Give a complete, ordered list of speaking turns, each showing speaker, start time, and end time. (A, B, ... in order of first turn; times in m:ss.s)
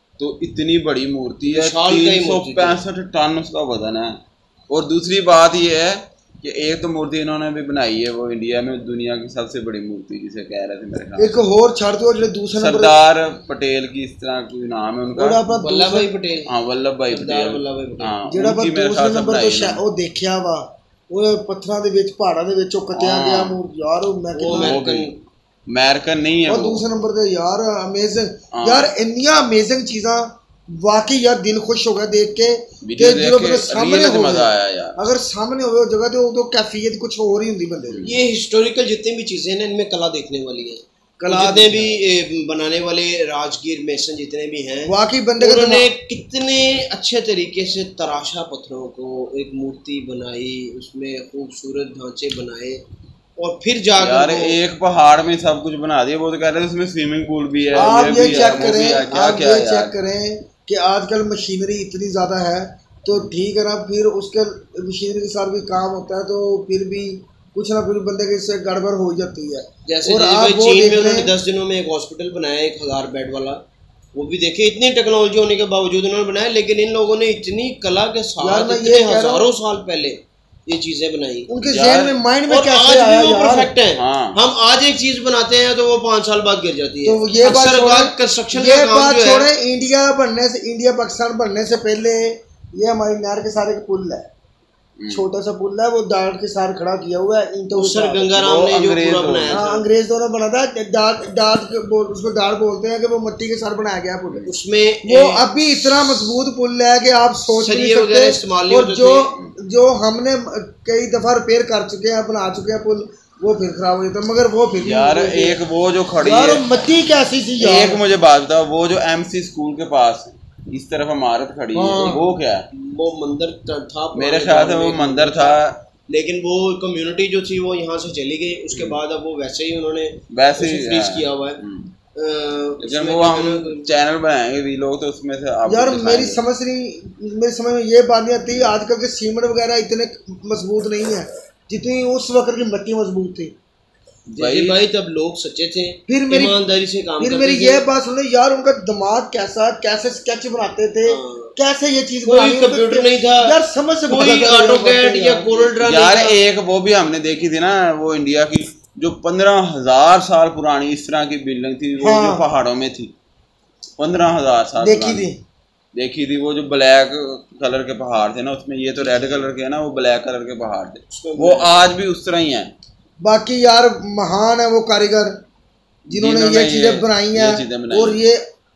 0:00.2-0:11.4 A
0:01.5-0:02.8 B
0:11.2-0:13.0 C
0:12.6-0:15.4 A
0:15.2-0:16.1 C
0:15.5-0:16.5 B
0:16.4-0:19.8 A
0:17.1-0:18.2 B
0:18.3-0:24.8 C
0:22.9-0:23.6 A
0:24.3-0:25.2 B
0:24.5-0:25.1 A
0:25.7-0:26.8 A
0:26.5-0:38.1 C
0:28.5-0:28.9 A
0:32.8-0:35.0 A
0:37.9-0:38.2 A
0:38.0-0:52.8 B
0:41.2-0:41.8 C
0:44.8-0:45.9 C
0:53.4-0:54.6 B
0:54.0-1:00.0 A
0:57.7-0:59.0 B
0:57.8-1:11.3 C
1:09.8-1:21.5 B
1:18.4-1:19.5 C
1:21.5-1:23.7 C
1:21.7-1:22.2 A
1:22.5-1:29.5 B
1:23.9-1:24.4 A
1:27.0-1:34.3 C
1:35.0-1:35.3 A
1:35.1-1:38.3 C
1:37.7-1:39.9 B
1:38.3-1:39.6 A
1:39.5-1:44.5 C
1:44.4-1:45.4 B
1:45.0-1:55.6 C
1:47.5-1:49.4 B
1:54.8-1:56.7 A
1:56.2-1:58.0 C
1:57.6-2:02.7 A
2:01.7-2:02.2 C
2:02.7-2:11.6 B
2:04.1-2:05.8 A
2:08.7-2:09.0 A
2:10.3-2:12.0 A
2:12.1-2:13.9 B
2:12.8-2:16.4 A
2:15.7-2:23.5 C
2:24.3-2:24.8 A
2:24.4-2:27.8 B
2:26.1-2:26.6 C
2:27.2-2:35.5 C
2:31.0-2:31.6 B
2:32.2-2:36.4 B
2:35.7-2:43.1 A
2:42.0-2:42.5 C
2:44.0-2:45.3 A
2:44.8-2:45.4 C
2:45.9-2:52.7 A
2:49.0-2:49.5 B
2:51.1-2:51.9 B
2:53.2-2:55.4 C
2:56.1-2:58.4 C
2:56.1-2:58.2 A